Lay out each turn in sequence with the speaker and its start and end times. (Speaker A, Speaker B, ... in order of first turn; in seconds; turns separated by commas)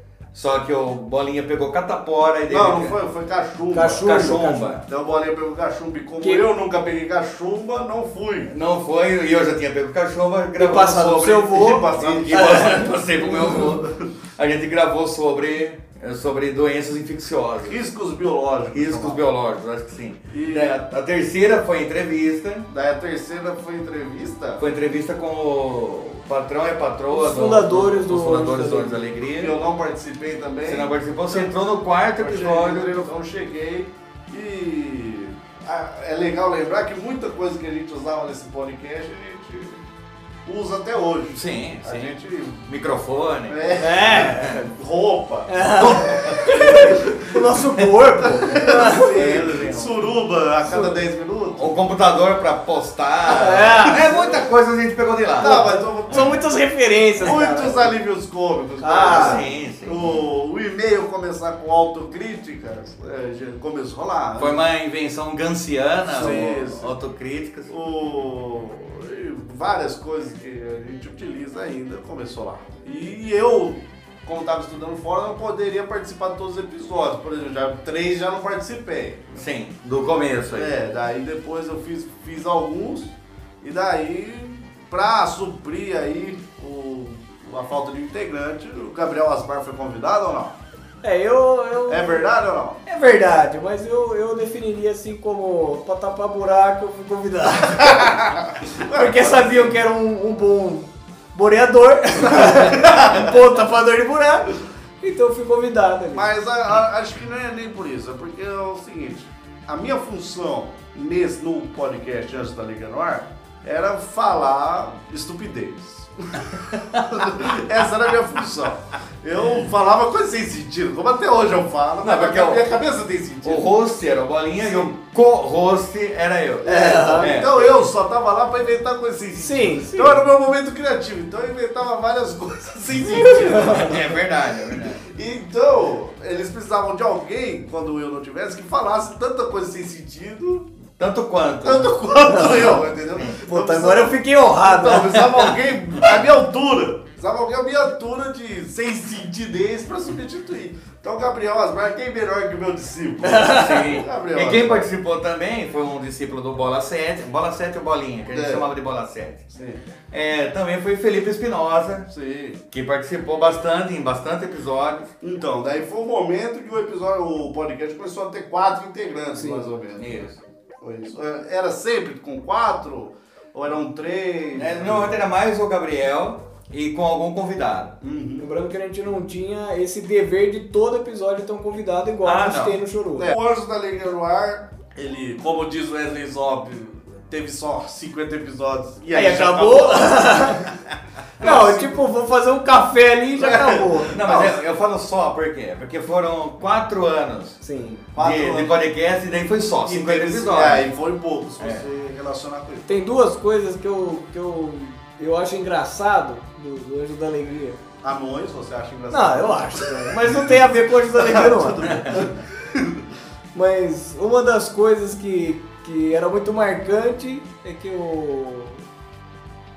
Speaker A: 0.3-3.0, Speaker B: 2.5-8.5, Speaker C: 3.7-4.8, Speaker A: 4.0-4.8, Speaker A: 8.5-17.8, Speaker C: 10.6-12.9, Speaker B: 11.4-13.9, Speaker B: 17.6-19.2, Speaker A: 18.7-22.7, Speaker B: 20.3-20.7, Speaker B: 22.7-24.6, Speaker A: 24.6-29.6, Speaker C: 27.1-29.1, Speaker B: 29.2-31.5, Speaker A: 30.6-33.1, Speaker B: 32.2-39.8, Speaker B: 40.5-42.7, Speaker A: 41.3-44.5, Speaker B: 43.5-47.4, Speaker C: 43.8-44.7, Speaker C: 45.5-49.1, Speaker B: 48.2-51.7, Speaker A: 48.5-50.1, Speaker C: 50.7-51.0, Speaker A: 51.6-55.7, Speaker C: 53.3-54.3, Speaker B: 55.4-56.4, Speaker C: 55.4-58.0, Speaker B: 57.2-64.6, Speaker C: 58.8-59.5, Speaker A: 59.0-60.2, Speaker A: 64.4-67.7, Speaker B: 66.1-66.9, Speaker C: 66.2-66.4, Speaker B: 67.7-79.4, Speaker A: 79.4-80.8, Speaker B: 80.5-90.6, Speaker C: 91.0-92.2, Speaker B: 91.9-92.8, Speaker C: 92.9-98.1, Speaker B: 97.8-99.7, Speaker C: 98.9-104.5, Speaker B: 102.4-103.3, Speaker C: 105.0-106.3, Speaker B: 106.1-123.7, Speaker A: 122.0-122.7, Speaker A: 123.4-127.8, Speaker B: 124.6-124.9, Speaker C: 126.7-127.3, Speaker B: 126.8-134.2, Speaker C: 129.4-130.2, Speaker C: 133.5-133.9, Speaker A: 133.5-135.0, Speaker B: 135.0-140.7, Speaker A: 141.0-142.7, Speaker B: 141.6-154.9, Speaker C: 142.3-142.8, Speaker C: 143.4-145.2, Speaker C: 153.2-153.8, Speaker A: 153.5-159.5, Speaker B: 158.3-158.6, Speaker B: 159.5-159.8, Speaker A: 160.1-162.1, Speaker B: 162.1-162.6, Speaker A: 162.7-165.1, Speaker B: 165.2-170.2, Speaker C: 169.4-169.7, Speaker A: 170.0-170.4, Speaker B: 170.8-175.2, Speaker A: 174.6-177.9, Speaker B: 178.0-178.5, Speaker C: 178.4-183.3, Speaker A: 182.2-182.8, Speaker B: 183.2-190.5, Speaker C: 189.1-190.7, Speaker B: 191.4-192.0, Speaker C: 191.4-194.2, Speaker B: 193.4-194.5, Speaker A: 194.1-197.6, Speaker C: 197.6-198.1, Speaker B: 198.2-198.8, Speaker A: 198.2-200.9, Speaker B: 199.8-202.9, Speaker A: 201.6-201.9, Speaker C: 202.9-207.8, Speaker B: 208.0-210.6, Speaker C: 209.1-212.3, Speaker B: 211.1-213.0, Speaker C: 213.5-218.8